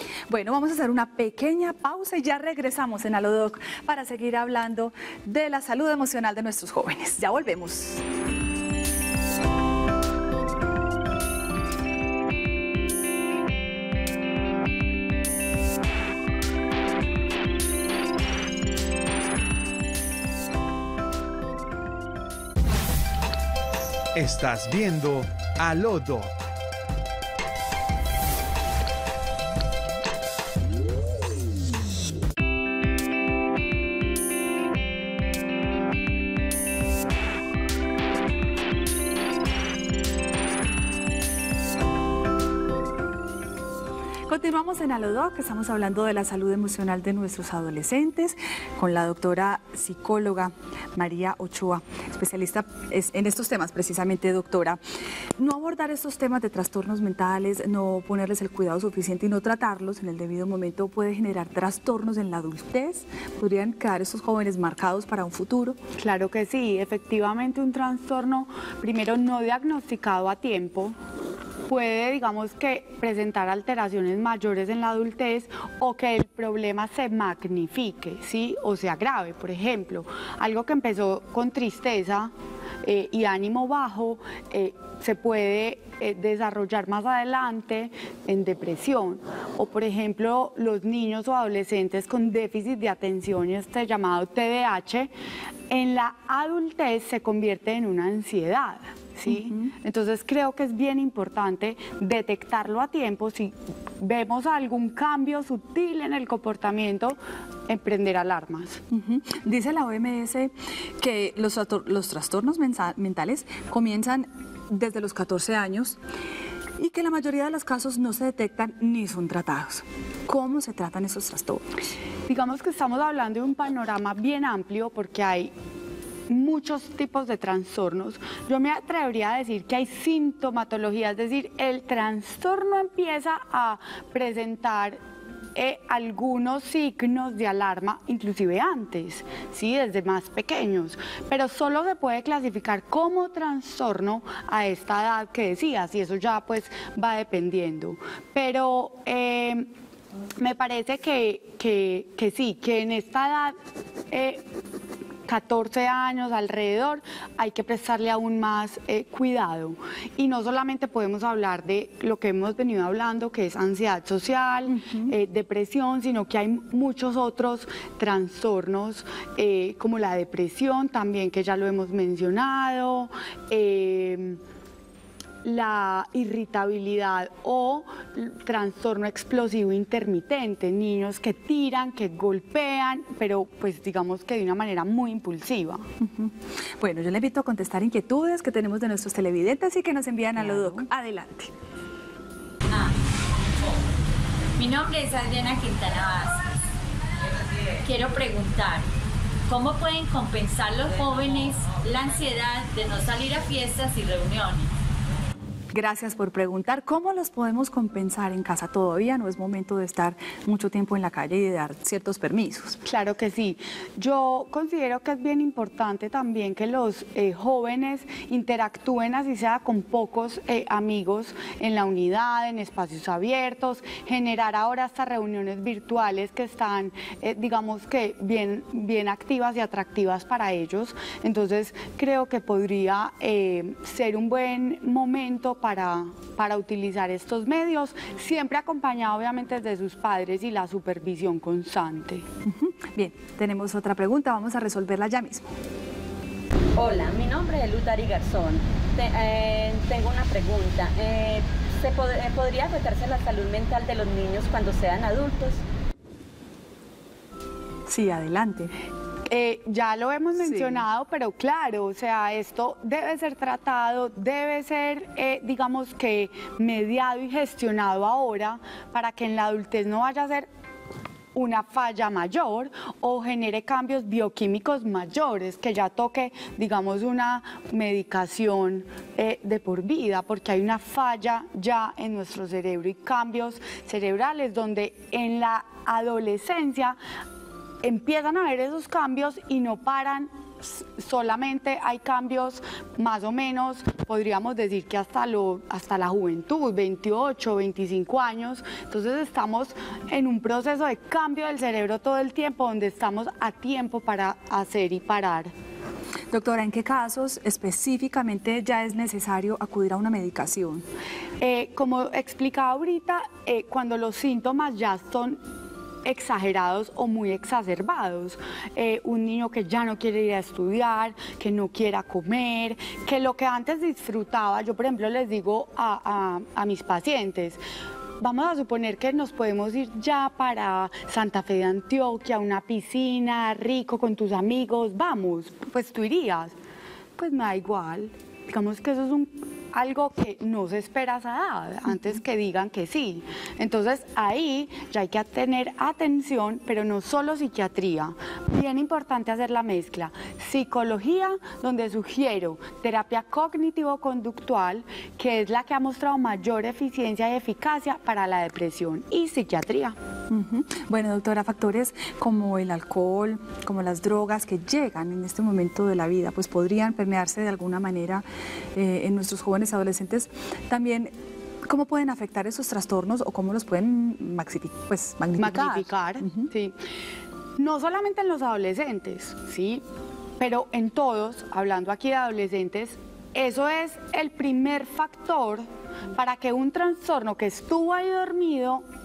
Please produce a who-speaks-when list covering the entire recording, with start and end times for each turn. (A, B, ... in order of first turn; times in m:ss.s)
0:00.3-0:08.0 A
0:24.1-0:26.3 B
0:44.3-0:54.8 A
0:55.4-1:05.8 A
1:06.0-1:11.0 C
1:11.7-1:22.3 C
1:22.8-1:35.1 C
1:35.7-1:48.8 C
1:48.9-1:56.0 A
1:56.8-2:01.7 A
2:02.3-2:05.5 C
2:06.3-2:15.0 C
2:15.6-2:29.7 C
2:30.4-2:33.6 C
2:34.1-2:34.5 C
2:35.3-2:54.4 C
2:44.7-2:45.1 A
2:55.4-3:05.9 C
3:06.0-3:11.5 A
3:14.6-3:16.4 D
3:17.8-3:18.8 D
3:19.5-3:24.7 D
3:25.7-3:32.8 A
3:32.8-4:02.3 C
4:02.4-4:05.5 A
4:06.8-4:15.6 E
4:17.9-4:18.7 A
4:19.3-4:30.5 C
4:20.4-4:20.8 A
4:31.3-4:47.0 C
4:47.8-5:05.5 C
5:06.3-5:10.8 A
5:11.4-5:15.4 C
5:16.0-5:27.6 C
5:28.2-5:36.6 C
5:37.2-6:00.0 C
6:00.3-6:11.1 A
6:11.6-6:16.5 A
6:15.4-6:16.8 C
6:17.6-6:19.8 C
6:20.4-6:28.8 C